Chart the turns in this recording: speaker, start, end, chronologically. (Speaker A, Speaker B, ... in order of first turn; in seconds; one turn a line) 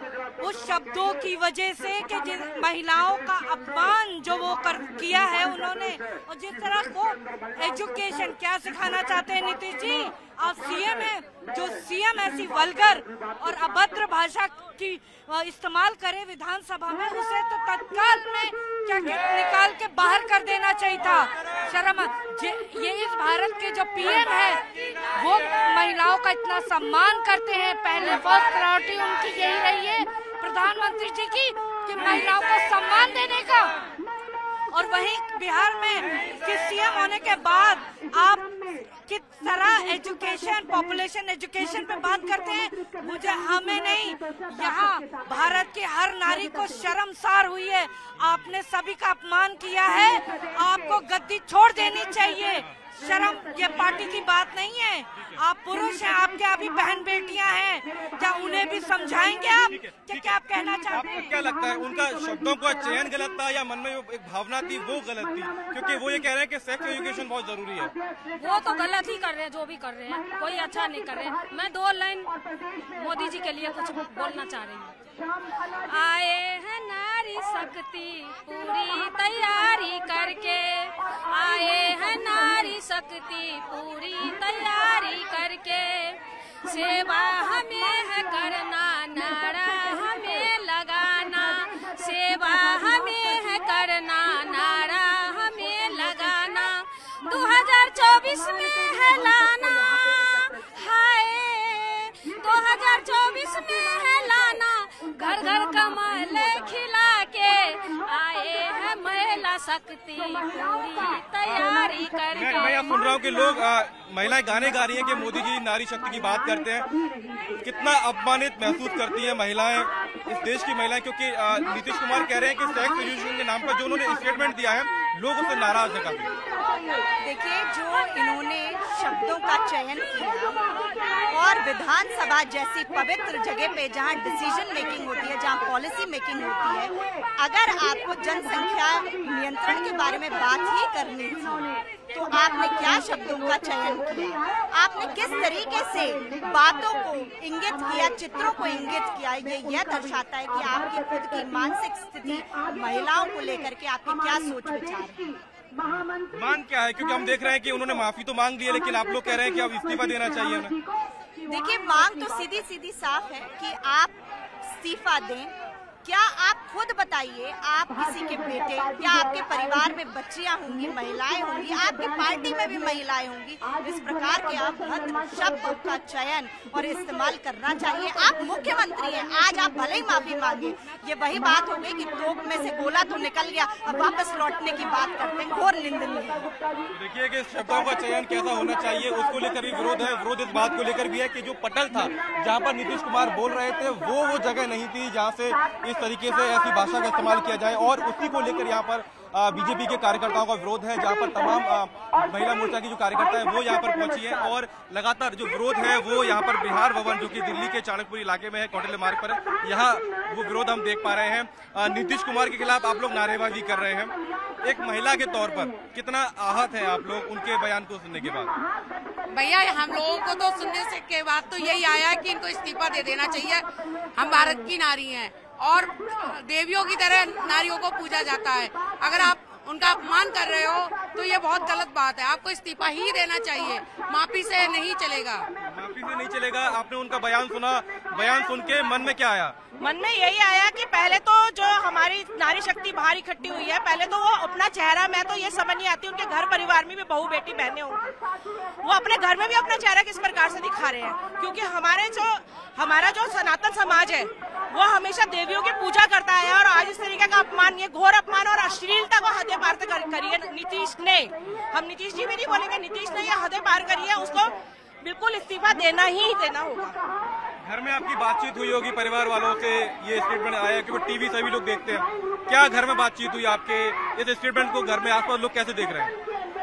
Speaker A: 0.4-24.6
Speaker A: 25.1-33.7
Speaker A: 34.7-61.3
Speaker B: 59.6-67.9
Speaker C: 68.4-72.3
Speaker C: 73.0-74.9
Speaker C: 75.9-112.9
Speaker B: 112.3-116.9
Speaker B: 117.6-126.3
Speaker D: 127.2-130.6
Speaker D: 131.3-155.3
Speaker B: 155.8-160.8
Speaker D: 161.4-165.5
Speaker D: 166.0-186.5
Speaker B: 186.9-218.5
Speaker E: 219.3-235.4
Speaker B: 235.6-239.5
Speaker F: 239.8-248.0
Speaker F: 248.8-266.9
Speaker B: 267.6-276.1